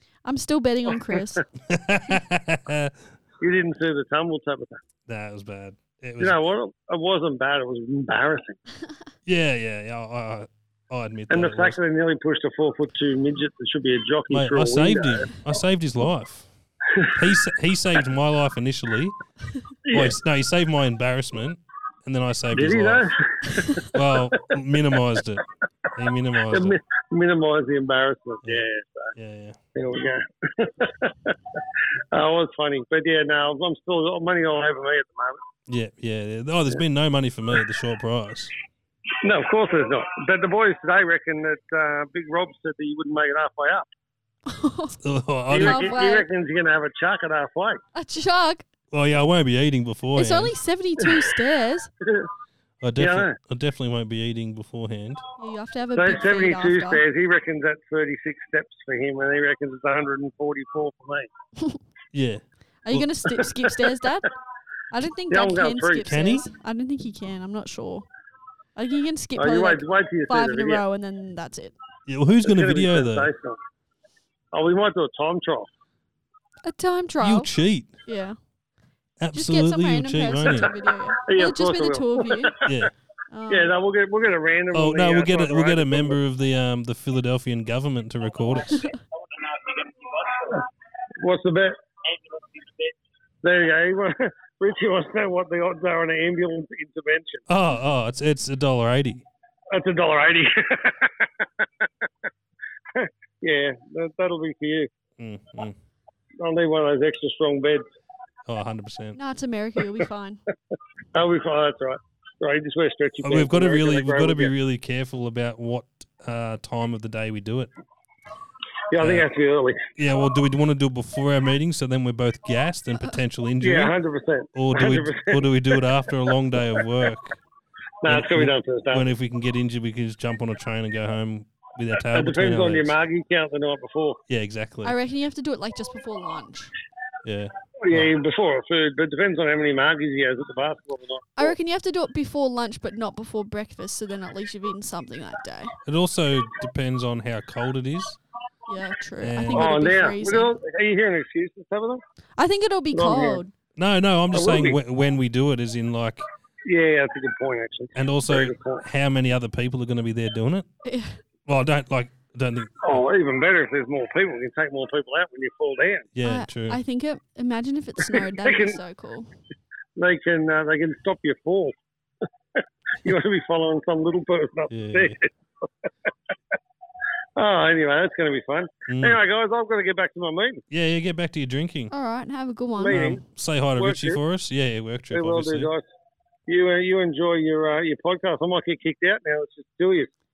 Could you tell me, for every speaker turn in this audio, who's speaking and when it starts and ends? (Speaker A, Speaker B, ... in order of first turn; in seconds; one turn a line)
Speaker A: 0.2-1.4
Speaker B: 1.7-3.0
Speaker C: 3.4-4.8
Speaker B: 5.1-6.4
Speaker C: 6.2-8.6
Speaker B: 9.3-11.8
Speaker C: 11.3-15.3
Speaker B: 14.3-16.5
Speaker B: 17.1-19.2
Speaker C: 19.9-20.2
Speaker B: 19.9-23.1
Speaker C: 22.5-24.5
Speaker B: 23.9-26.8
Speaker C: 26.5-29.1
Speaker B: 28.4-29.6
Speaker C: 29.8-31.4
Speaker C: 32.1-35.4
Speaker B: 35.7-38.5
Speaker C: 39.2-43.9
Speaker A: 44.5-45.0
Speaker B: 45.0-46.0
Speaker C: 45.5-47.8
Speaker A: 45.5-46.3
Speaker A: 48.0-48.6
Speaker B: 48.9-50.5
Speaker A: 50.1-51.9
Speaker C: 52.0-52.3
Speaker B: 52.8-55.2
Speaker C: 53.0-53.4
Speaker A: 55.4-57.0
Speaker C: 56.0-61.3
Speaker B: 62.1-63.1
Speaker A: 62.9-64.3
Speaker A: 64.9-68.1
Speaker C: 65.3-66.1
Speaker B: 66.0-66.5
Speaker A: 68.8-71.8
Speaker C: 69.4-70.8
Speaker B: 72.1-73.3
Speaker C: 72.4-73.6
Speaker C: 74.5-75.7
Speaker A: 76.7-77.5
Speaker B: 77.2-77.9
Speaker A: 78.1-78.4
Speaker B: 79.2-80.7
Speaker A: 79.3-82.6
Speaker C: 81.3-82.8
Speaker B: 82.6-82.9
Speaker A: 83.3-83.7
Speaker C: 83.5-86.2
Speaker B: 84.7-88.9
Speaker C: 89.6-90.7
Speaker C: 91.2-91.8
Speaker C: 93.4-97.4
Speaker B: 97.5-99.3
Speaker C: 99.7-101.3
Speaker C: 103.0-104.9
Speaker B: 105.2-105.8
Speaker C: 106.4-107.8
Speaker B: 108.5-109.2
Speaker A: 109.2-110.4
Speaker C: 111.1-114.5
Speaker B: 113.2-117.7
Speaker C: 118.9-119.9
Speaker B: 119.0-119.3
Speaker B: 120.0-124.0
Speaker C: 123.6-125.5
Speaker B: 124.5-127.4
Speaker C: 128.0-129.1
Speaker B: 128.1-132.9
Speaker C: 132.1-134.2
Speaker B: 134.3-135.0
Speaker A: 134.8-136.7
Speaker B: 137.2-138.1
Speaker C: 137.8-141.6
Speaker A: 141.4-145.8
Speaker B: 145.9-148.2
Speaker A: 148.7-150.5
Speaker B: 149.2-149.8
Speaker C: 149.5-152.0
Speaker A: 152.4-153.5
Speaker C: 152.9-153.4
Speaker B: 153.8-156.2
Speaker C: 154.3-154.8
Speaker C: 156.7-158.8
Speaker B: 157.9-160.7
Speaker A: 160.8-161.2
Speaker B: 161.5-163.0
Speaker C: 162.8-166.1
Speaker B: 166.1-166.8
Speaker A: 166.2-169.3
Speaker C: 168.4-168.8
Speaker C: 170.0-171.7
Speaker C: 173.0-175.3
Speaker B: 174.7-175.2
Speaker C: 177.4-180.6
Speaker B: 178.9-179.2
Speaker B: 180.7-181.9
Speaker A: 181.9-183.0
Speaker C: 182.8-183.2
Speaker B: 182.9-185.7
Speaker C: 183.8-184.2
Speaker C: 185.1-185.8
Speaker C: 186.5-190.1